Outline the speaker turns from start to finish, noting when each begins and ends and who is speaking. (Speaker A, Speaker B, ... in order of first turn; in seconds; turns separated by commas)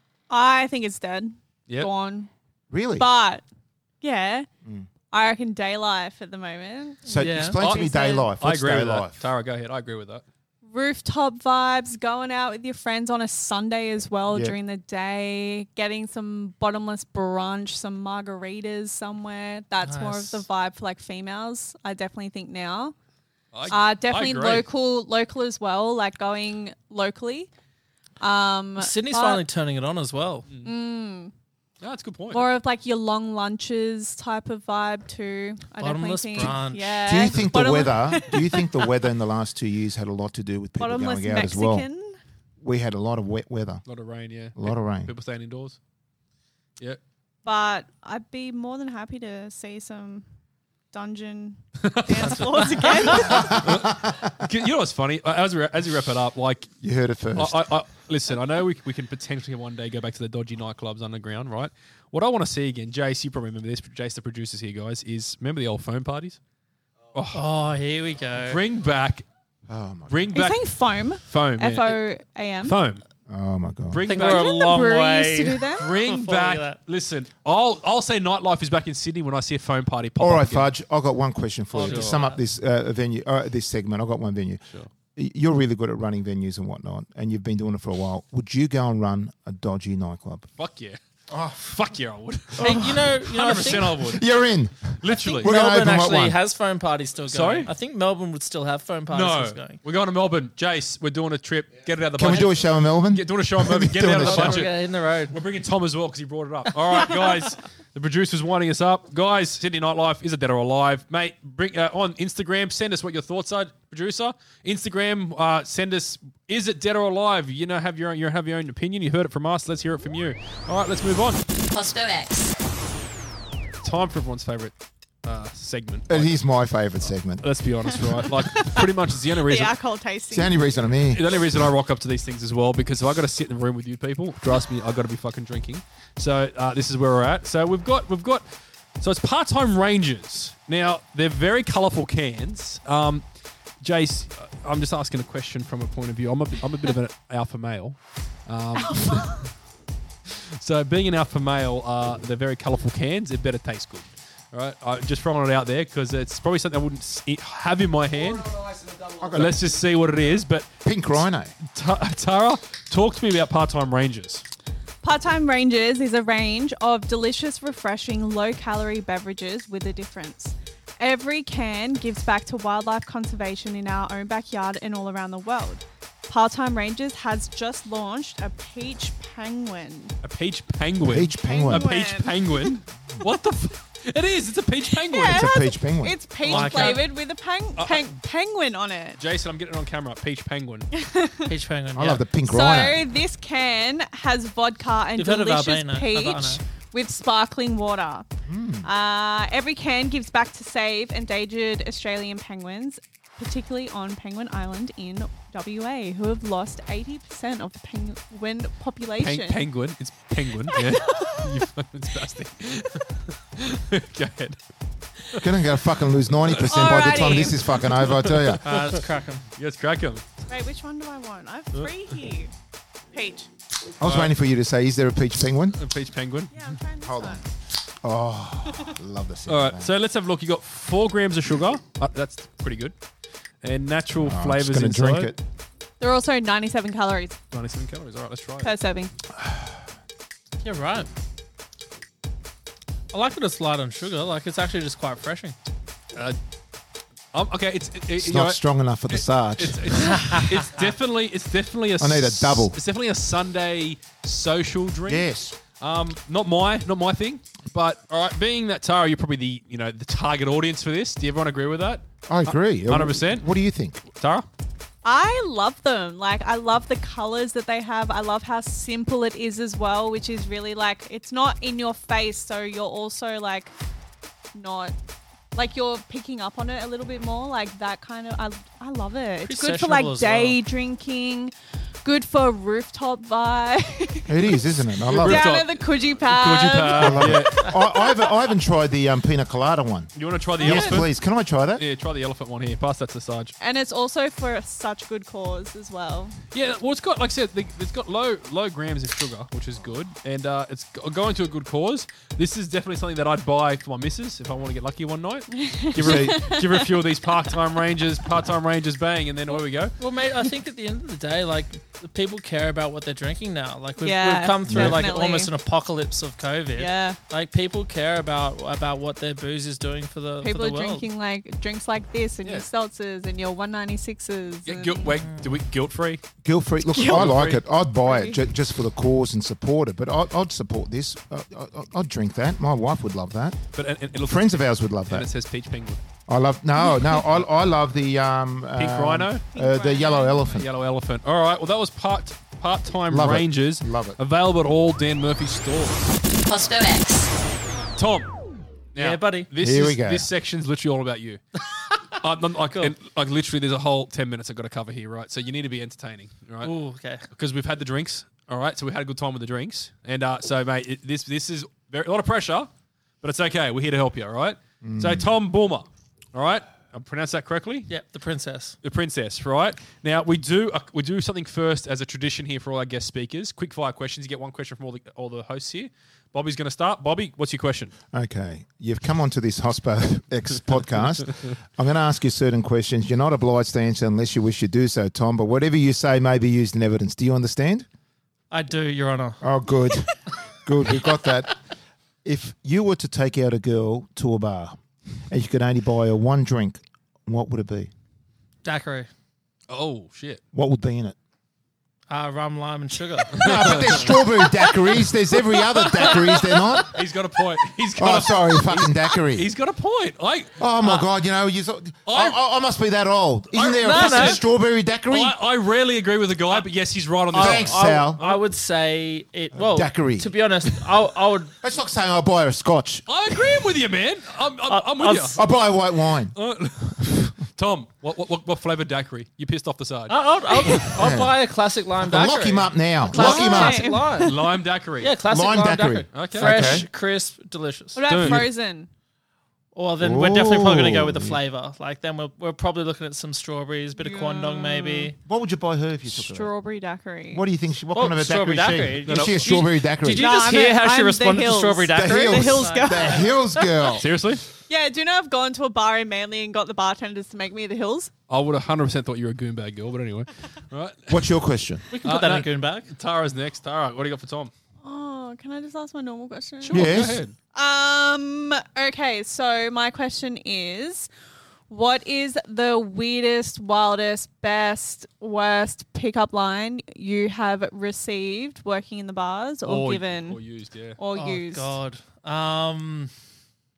Speaker A: 0.3-2.3, Speaker B: 2.7-3.1, Speaker A: 3.0-3.4, Speaker A: 4.0-4.5, Speaker A: 5.1-8.3, Speaker B: 7.1-9.2, Speaker C: 7.1-7.6, Speaker D: 7.6-10.2, Speaker A: 10.7-22.9, Speaker B: 14.3-14.5, Speaker C: 19.8-20.4, Speaker D: 23.5-24.6, Speaker A: 23.7-27.5, Speaker A: 28.2-29.4, Speaker C: 28.8-30.5, Speaker A: 30.6-31.3, Speaker D: 31.8-32.5, Speaker A: 32.3-38.9, Speaker C: 35.8-37.1, Speaker B: 37.0-41.9, Speaker A: 40.8-42.2, Speaker B: 42.6-43.8, Speaker D: 43.9-45.8, Speaker B: 44.5-45.1, Speaker A: 47.4-50.2, Speaker A: 50.9-53.7, Speaker D: 51.8-56.7, Speaker C: 52.3-53.2, Speaker B: 53.2-54.4, Speaker B: 56.8-57.6, Speaker D: 57.3-66.4, Speaker D: 67.1-67.4, Speaker C: 67.3-68.6, Speaker D: 68.4-69.2, Speaker B: 69.7-70.3, Speaker D: 70.1-72.0, Speaker A: 70.3-72.8, Speaker D: 72.6-73.0, Speaker B: 73.3-74.0, Speaker D: 73.9-74.5, Speaker C: 74.0-76.8, Speaker A: 74.1-75.9, Speaker D: 75.8-80.7, Speaker B: 80.2-84.6, Speaker C: 81.7-82.4, Speaker D: 81.8-82.2, Speaker B: 85.1-90.5, Speaker D: 90.6-91.0, Speaker B: 91.3-91.6, Speaker D: 91.5-94.2, Speaker B: 92.6-92.9, Speaker C: 92.6-94.0, Speaker B: 93.9-96.4, Speaker D: 95.0-95.5, Speaker C: 95.4-99.8, Speaker D: 97.3-97.7, Speaker D: 99.1-121.4, Speaker B: 102.2-104.7, Speaker C: 104.2-105.3, Speaker E: 121.7-122.6, Speaker D: 123.8-124.7, Speaker D: 125.2-126.3, Speaker B: 126.1-127.5, Speaker D: 127.4-129.8, Speaker A: 128.4-128.9, Speaker A: 129.4-130.6, Speaker B: 130.3-131.3, Speaker D: 131.1-138.4, Speaker D: 139.0-143.2, Speaker D: 143.8-149.5, Speaker A: 148.9-149.4, Speaker D: 150.3-158.8, Speaker B: 159.2-159.6, Speaker D: 159.3-160.8, Speaker B: 160.8-161.5, Speaker D: 161.6-164.4, Speaker A: 165.0-180.1, Speaker D: 180.2-185.5, Speaker B: 181.1-181.9, Speaker A: 181.4-182.8, Speaker A: 184.9-189.2, Speaker B: 185.3-186.2, Speaker D: 186.4-187.1, Speaker C: 186.4-187.0, Speaker D: 187.8-188.1, Speaker D: 189.2-190.9, Speaker A: 190.9-191.5, Speaker C: 191.5-192.2, Speaker B: 191.9-193.0, Speaker A: 192.4-198.3, Speaker C: 195.2-196.6, Speaker B: 198.4-198.9, Speaker A: 198.8-209.6, Speaker D: 209.2-214.6, Speaker A: 210.7-211.4, Speaker B: 215.4-218.6, Speaker D: 216.4-217.0, Speaker A: 216.6-217.7, Speaker D: 217.8-219.0, Speaker C: 218.6-219.4, Speaker D: 219.6-220.2, Speaker A: 220.5-222.5, Speaker A: 223.1-223.5, Speaker B: 224.0-225.8, Speaker D: 224.0-224.3, Speaker D: 225.8-226.8, Speaker A: 226.5-227.4, Speaker B: 227.0-227.4, Speaker B: 228.0-229.9, Speaker D: 229.5-232.9, Speaker D: 233.6-235.3, Speaker B: 234.2-235.4, Speaker A: 236.0-237.4, Speaker D: 237.5-238.7, Speaker A: 238.6-239.1, Speaker B: 239.3-239.7, Speaker C: 240.6-241.1, Speaker C: 243.1-245.6, Speaker D: 247.3-255.3, Speaker B: 248.2-250.0, Speaker C: 250.0-250.7, Speaker B: 252.0-252.8, Speaker B: 255.1-255.6, Speaker D: 255.8-263.5, Speaker B: 262.3-264.0, Speaker D: 264.1-264.4, Speaker A: 265.0-273.7, Speaker A: 274.5-274.9, Speaker A: 275.5-284.6, Speaker C: 279.4-280.6, Speaker B: 284.3-285.5, Speaker D: 285.0-287.6, Speaker A: 285.2-288.3, Speaker B: 286.9-291.8, Speaker D: 290.1-291.1, Speaker A: 290.6-291.0, Speaker D: 291.8-293.5, Speaker A: 293.6-296.4, Speaker D: 296.5-309.9, Speaker A: 305.6-307.0, Speaker B: 306.0-306.5, Speaker C: 310.0-321.1, Speaker A: 314.0-315.5, Speaker B: 314.7-315.0, Speaker A: 316.8-317.2, Speaker A: 320.4-325.2, Speaker D: 324.6-326.2, Speaker B: 326.4-333.6, Speaker A: 326.9-327.4, Speaker D: 327.0-327.6, Speaker A: 328.0-328.4, Speaker D: 333.7-336.0, Speaker B: 334.2-335.3, Speaker B: 336.3-340.6, Speaker D: 338.8-339.4, Speaker A: 339.5-340.5, Speaker D: 340.4-346.1, Speaker B: 343.1-344.2, Speaker E: 346.4-347.4, Speaker D: 347.9-348.3, Speaker D: 348.9-351.4, Speaker C: 348.9-349.5, Speaker B: 349.6-350.3, Speaker D: 352.1-356.7, Speaker C: 356.6-357.2, Speaker D: 357.3-362.7, Speaker D: 363.2-367.9, Speaker B: 364.8-365.3, Speaker C: 367.9-368.8, Speaker D: 368.8-377.9, Speaker B: 378.1-387.9, Speaker C: 388.5-389.4, Speaker B: 389.4-391.5, Speaker B: 392.2-397.9, Speaker C: 398.6-399.1, Speaker D: 399.7-400.4, Speaker B: 400.5-401.1, Speaker C: 402.1-404.0, Speaker B: 403.3-407.0, Speaker D: 403.4-404.2, Speaker D: 405.7-410.6, Speaker B: 408.0-409.5, Speaker B: 410.6-415.4, Speaker D: 412.1-412.4, Speaker D: 413.5-414.4, Speaker C: 413.8-414.4, Speaker D: 415.1-418.4, Speaker C: 417.3-421.5, Speaker B: 417.3-418.2, Speaker B: 419.5-420.3, Speaker B: 421.6-423.0, Speaker D: 423.1-425.4, Speaker C: 424.7-425.4, Speaker B: 425.3-426.3, Speaker D: 426.3-430.9, Speaker C: 430.1-434.3, Speaker B: 430.9-431.3, Speaker B: 432.0-433.9, Speaker A: 433.1-434.4, Speaker D: 434.2-435.1, Speaker C: 435.0-438.0, Speaker B: 435.3-436.9, Speaker D: 436.1-436.8, Speaker A: 437.9-438.9, Speaker D: 438.1-438.4, Speaker C: 439.7-445.1, Speaker B: 440.0-441.4, Speaker A: 444.0-445.1, Speaker B: 445.2-446.5, Speaker A: 446.1-447.4, Speaker B: 447.3-450.4, Speaker C: 447.9-453.6, Speaker D: 449.1-449.6, Speaker A: 450.1-453.4, Speaker B: 451.9-454.1, Speaker D: 453.9-454.4, Speaker A: 454.7-458.1, Speaker D: 458.3-461.3, Speaker B: 461.1-461.8, Speaker C: 461.9-462.9, Speaker D: 462.0-464.5, Speaker A: 464.8-471.1, Speaker D: 466.6-467.3, Speaker B: 466.7-467.2, Speaker A: 471.7-480.4, Speaker D: 479.6-481.0, Speaker A: 481.0-481.8, Speaker C: 481.1-483.1